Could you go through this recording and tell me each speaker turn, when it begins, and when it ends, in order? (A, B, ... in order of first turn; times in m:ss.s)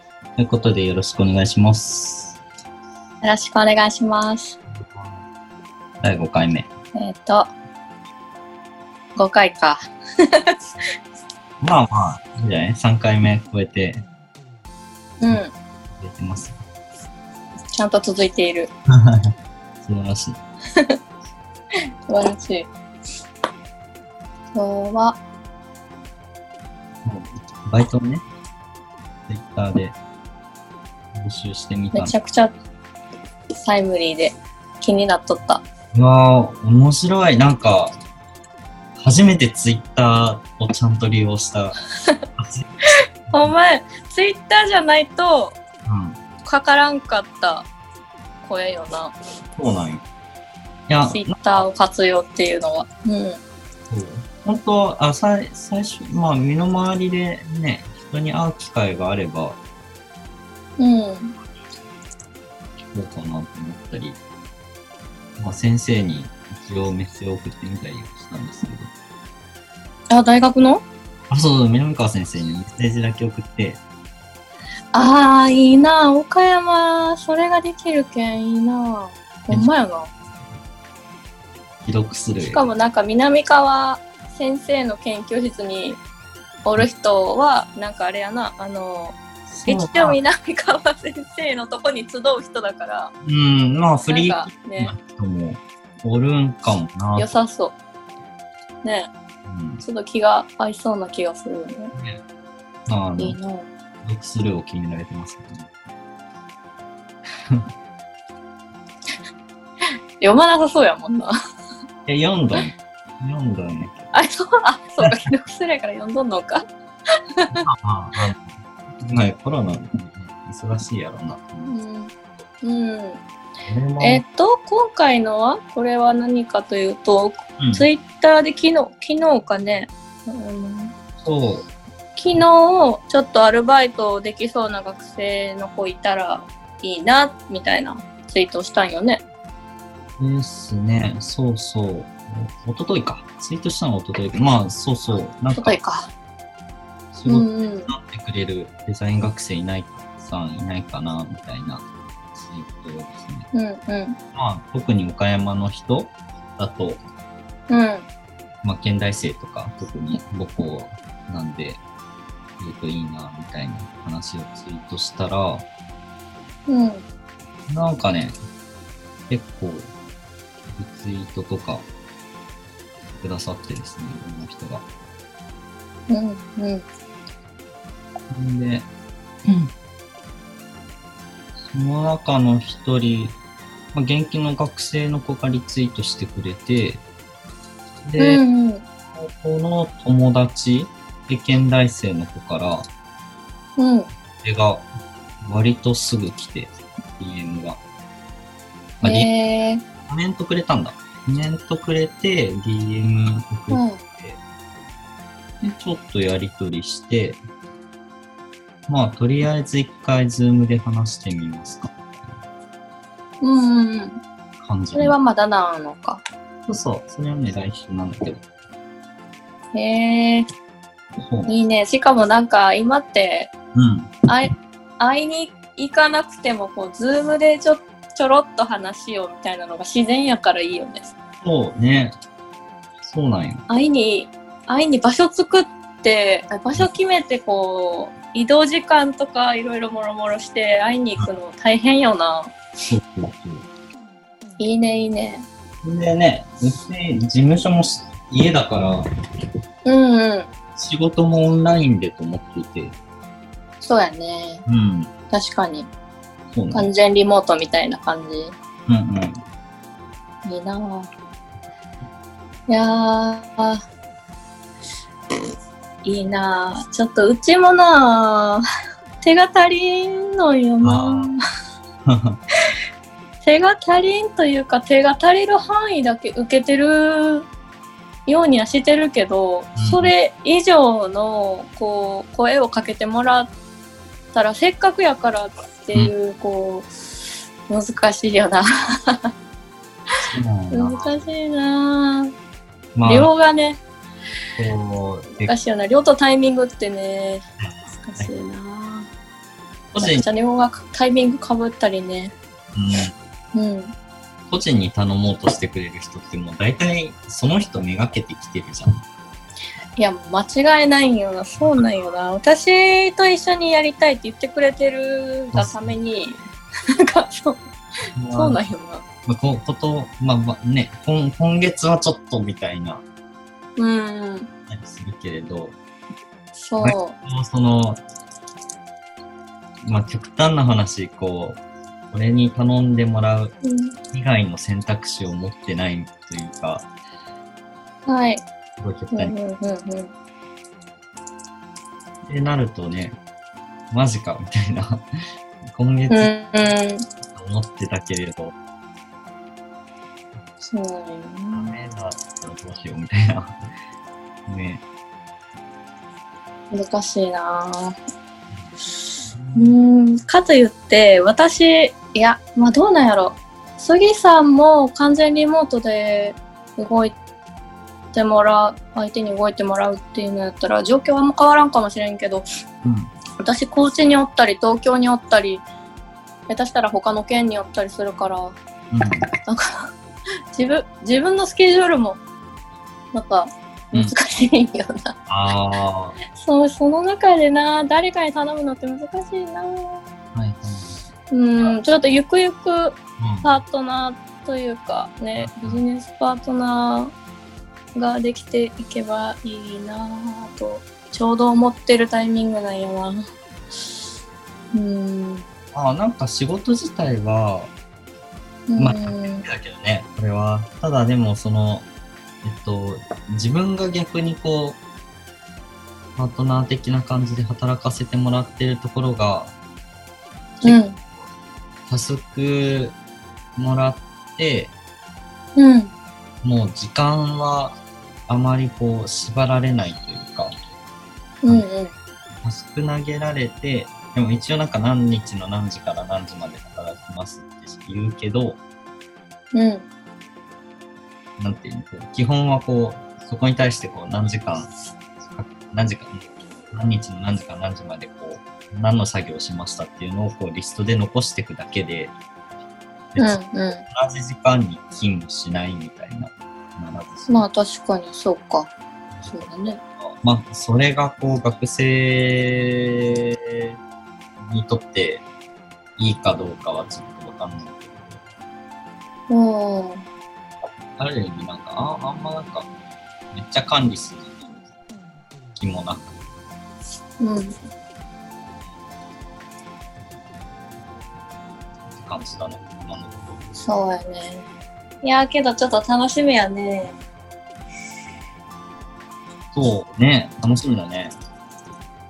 0:00.4-0:02.4 A
0:03.2-0:04.6 B
0:04.8-0:05.2 A
0:06.0-0:06.7 A
0:06.9-0:07.5 B
0:09.2-0:09.8 B
0:11.6-0:14.0 A
0:15.2-0:15.5 B
0:15.3-0:16.6 A
0:17.7-0:18.7 B
0:19.8-0:20.4 A
0:22.1-0:22.7 B
0:24.5-0:25.2 B
0:27.0-0:28.2 A
0:29.3-0:30.0 A
0:31.1-0:32.1 A
0:31.9-0:32.5 B
0:33.6-0:35.6 B
0:35.9-0:37.9 A
0:39.0-0:41.8 A
0:42.4-0:42.8 A
0:43.3-0:45.6 B
0:45.9-0:46.2 A
0:46.4-0:47.7 B
0:48.4-0:49.1 B
0:49.6-0:50.0 A
0:50.9-0:51.6 A
0:51.0-0:53.4 B
0:53.9-0:59.6 A
1:00.8-1:01.4 B
1:02.9-1:04.2 A
1:05.4-1:08.9 A
1:10.1-1:10.8 B
1:11.3-1:13.8 A
1:14.9-1:20.1 B
1:21.8-1:22.7 A
1:22.5-1:26.0 B
1:26.6-1:33.1 B
1:29.5-1:30.2 A
1:33.2-1:37.3 A
1:34.0-1:34.9 B
1:37.2-1:37.8 B
1:38.8-1:39.1 B
1:39.5-1:39.8 A
1:39.8-1:41.9 B
1:41.9-1:42.2 A
1:42.9-1:43.4 A
1:43.2-1:43.7 B
1:44.0-1:45.7 A
1:50.2-1:51.3 B
1:52.0-1:54.1 A
1:54.1-1:56.6 B
1:57.5-1:58.4 A
1:59.0-2:01.8 A
2:01.7-2:03.2 B
2:03.6-2:04.2 A
2:04.0-2:10.9 B
2:07.6-2:07.9 A
2:11.2-2:11.6 A
2:12.2-2:19.2 B
2:20.2-2:25.8 A
2:25.5-2:26.1 B
2:27.1-2:33.5 A
2:27.2-2:27.9 B
2:33.5-2:34.2 B
2:34.3-2:37.0 A
2:37.7-2:38.0 B
2:38.6-2:41.8 A
2:42.6-2:45.7 A
2:46.7-2:47.0 B
2:47.7-2:48.4 A
2:49.3-2:49.9 A
2:50.7-2:51.9 A
2:53.1-2:54.8 A
2:56.1-2:56.8 B
2:58.3-2:58.9 A
2:59.4-2:59.7 A
3:01.6-3:03.4 A
3:03.9-3:07.0 A
3:08.0-3:08.4 A
3:08.2-3:08.8 B
3:09.1-3:12.8 A
3:13.8-3:14.1 B
3:14.4-3:14.9 A
3:15.4-3:17.8 A
3:19.0-3:19.3 A
3:19.0-3:19.8 B
3:20.0-3:24.4 A
3:23.7-3:24.0 B
3:25.6-3:27.4 A
3:28.9-3:32.3 A
3:33.4-3:34.2 B
3:34.6-3:35.2 A
3:35.0-3:36.2 B
3:36.7-3:38.4 A
3:39.7-3:40.4 B
3:41.2-3:41.5 A
3:41.5-3:43.5 B
3:43.8-3:44.1 A
3:44.3-3:51.1 B
3:51.4-3:52.1 A
3:53.0-3:53.6 A
3:53.7-4:02.5 B
4:02.9-4:03.6 A
4:04.6-4:05.5 B
4:05.8-4:09.0 A
4:09.8-4:10.5 B
4:10.8-4:13.0 A
4:13.8-4:14.6 B
4:14.7-4:15.1 A
4:15.3-4:15.9 B
4:16.5-4:16.9 A
4:16.7-4:18.5 B
4:18.9-4:19.4 A
4:20.4-4:21.1 B
4:22.7-4:23.8 B
4:26.0-4:28.6 B
4:29.2-4:31.4 B
4:30.8-4:31.3 A
4:32.1-4:32.4 A
4:33.4-4:37.5 B
4:38.2-4:43.5 B
4:39.8-4:40.1 A
4:44.3-4:49.3 B
4:50.2-4:51.2 A
4:50.7-4:52.3 B
4:52.9-4:53.3 A
4:53.0-4:53.8 B
4:54.6-4:55.5 A
4:55.4-4:59.1 B
4:57.6-4:58.3 A
4:59.9-5:00.2 A
5:00.0-5:02.3 B
5:02.7-5:03.1 A
5:03.5-5:03.9 B
5:04.5-5:09.0 A
5:10.0-5:16.4 B
5:11.6-5:11.9 A
5:15.5-5:16.0 A
5:17.0-5:17.6 B
5:18.2-5:18.6 A
5:18.3-5:19.0 B
5:19.2-5:23.0 A
5:23.8-5:24.5 B
5:24.7-5:25.8 A
5:26.6-5:27.2 B
5:26.8-5:28.0 A
5:29.8-5:33.5 A
5:33.6-5:33.9 B
5:34.1-5:36.8 A
5:38.0-5:38.4 B
5:38.8-5:39.3 A
5:39.1-5:40.1 B
5:42.2-5:43.2 A
5:43.9-5:45.0 A
5:45.7-5:46.3 A
5:46.1-5:47.0 B
5:47.3-5:48.5 A
5:50.6-5:51.8 B
5:51.5-5:53.5 A
5:54.5-5:54.8 A
5:56.7-5:57.9 B
5:59.2-5:59.8 A
5:59.5-6:07.1 B
6:08.1-6:12.4 B
6:12.8-6:13.1 A
6:13.4-6:15.6 B
6:16.5-6:18.6 B
6:18.9-6:19.2 A
6:20.5-6:22.2 B
6:23.1-6:25.2 B
6:25.3-6:26.2 A
6:26.3-6:30.0 B
6:30.3-6:31.7 A
6:31.3-6:37.1 B
6:33.2-6:33.6 A
6:35.4-6:35.8 A
6:37.9-6:43.3 B
6:44.7-6:45.4 B
6:45.7-6:47.7 A
6:48.7-6:49.4 B
6:48.8-6:51.9 A
6:52.4-6:54.8 A
6:56.2-6:59.5 A
7:00.6-7:01.0 B
7:01.9-7:03.0 A
7:03.6-7:04.7 A
7:05.6-7:05.9 B
7:06.4-7:10.5 A
7:11.4-7:11.9 B
7:12.4-7:18.6 A
7:19.5-7:19.8 B
7:21.4-7:24.7 A
7:25.3-7:32.1 A
7:33.1-7:33.4 A
7:33.2-7:33.8 B
7:33.9-7:37.4 A
7:37.3-7:38.7 B
7:39.2-7:39.8 B
7:40.2-7:43.7 A
7:44.4-7:45.2 A
7:46.0-7:48.2 A
7:49.3-7:50.0 B
7:51.0-7:52.7 A
7:53.3-7:54.6 A
7:55.6-7:56.2 A
7:57.2-7:57.5 B
8:01.9-8:03.4 A
8:03.6-8:04.5 B
8:05.0-8:07.0 B
8:09.5-8:11.1 A